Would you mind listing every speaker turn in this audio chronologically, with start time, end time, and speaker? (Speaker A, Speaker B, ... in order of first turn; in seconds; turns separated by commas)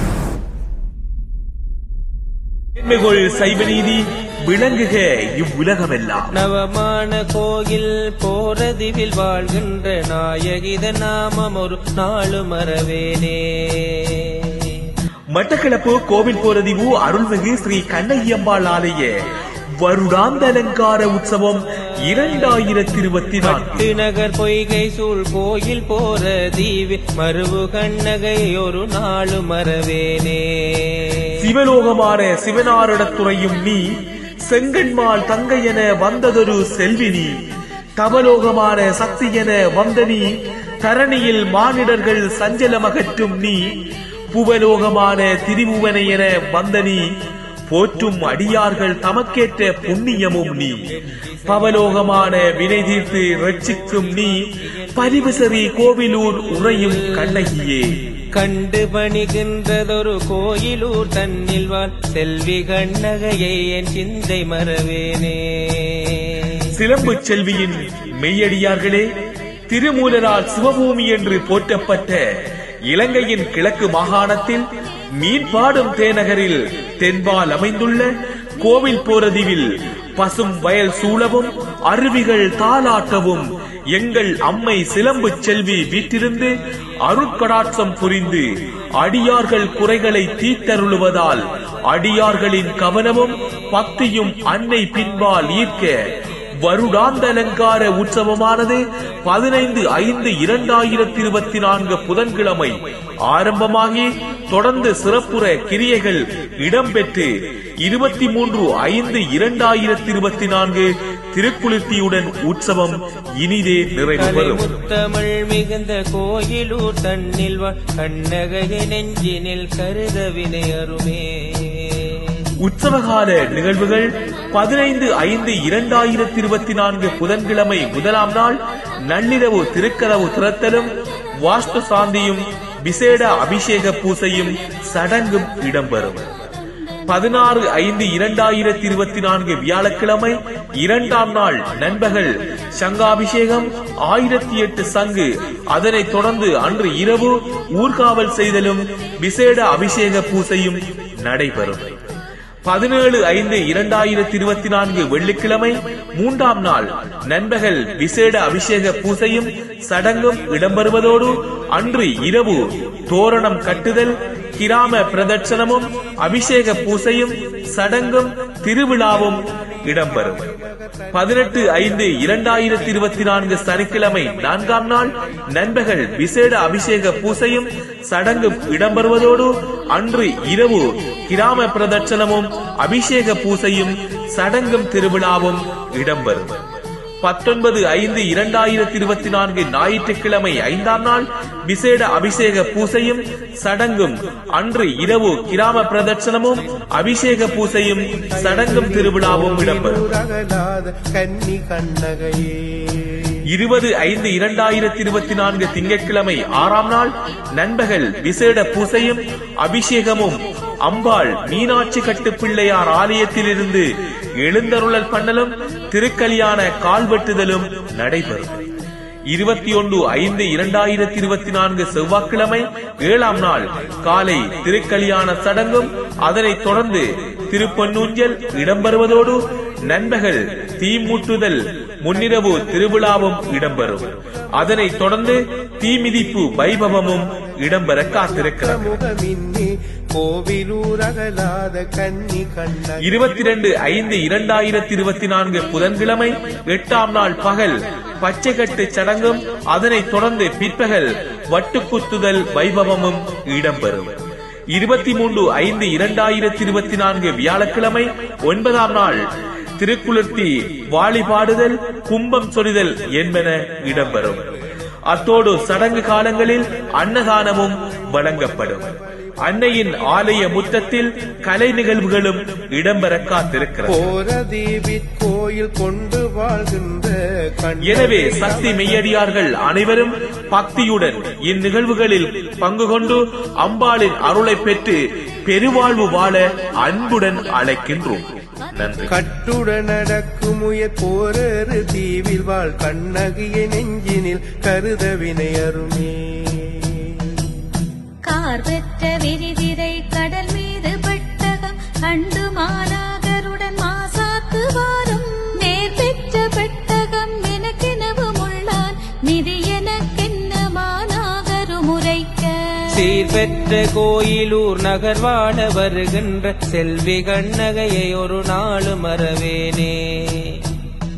Speaker A: 2.8-6.3, Speaker B: 6.3-14.9, Speaker A: 15.3-19.1, Speaker A: 19.8-23.9, Speaker B: 23.4-31.4, Speaker A: 31.4-33.9, Speaker A: 34.4-37.3, Speaker A: 38.0-43.8, Speaker A: 44.3-47.1, Speaker A: 47.7-50.8, Speaker A: 51.5-54.4, Speaker A: 54.9-58.0, Speaker B: 56.6-57.5, Speaker B: 58.3-66.7, Speaker A: 66.7-69.1, Speaker A: 69.7-74.6, Speaker A: 75.2-86.5, Speaker A: 87.0-88.5, Speaker A: 89.0-96.0, Speaker A: 96.6-102.8, Speaker A: 103.3-107.3, Speaker A: 107.8-114.7, Speaker B: 114.2-122.4, Speaker A: 122.6-136.5, Speaker A: 137.1-151.9, Speaker A: 152.6-170.5, Speaker C: 170.6-171.8, Speaker A: 171.1-186.6, Speaker A: 187.2-200.0, Speaker C: 198.3-203.4, Speaker A: 203.5-213.9, Speaker A: 214.4-218.6, Speaker A: 219.3-239.0, Speaker C: 238.6-243.2, Speaker A: 243.0-254.2, Speaker A: 254.7-259.2, Speaker A: 259.8-264.5, Speaker A: 265.1-274.1, Speaker C: 273.9-279.1, Speaker A: 277.8-289.1, Speaker C: 289.1-297.4, Speaker D: 298.2-313.1, Speaker B: 312.9-320.6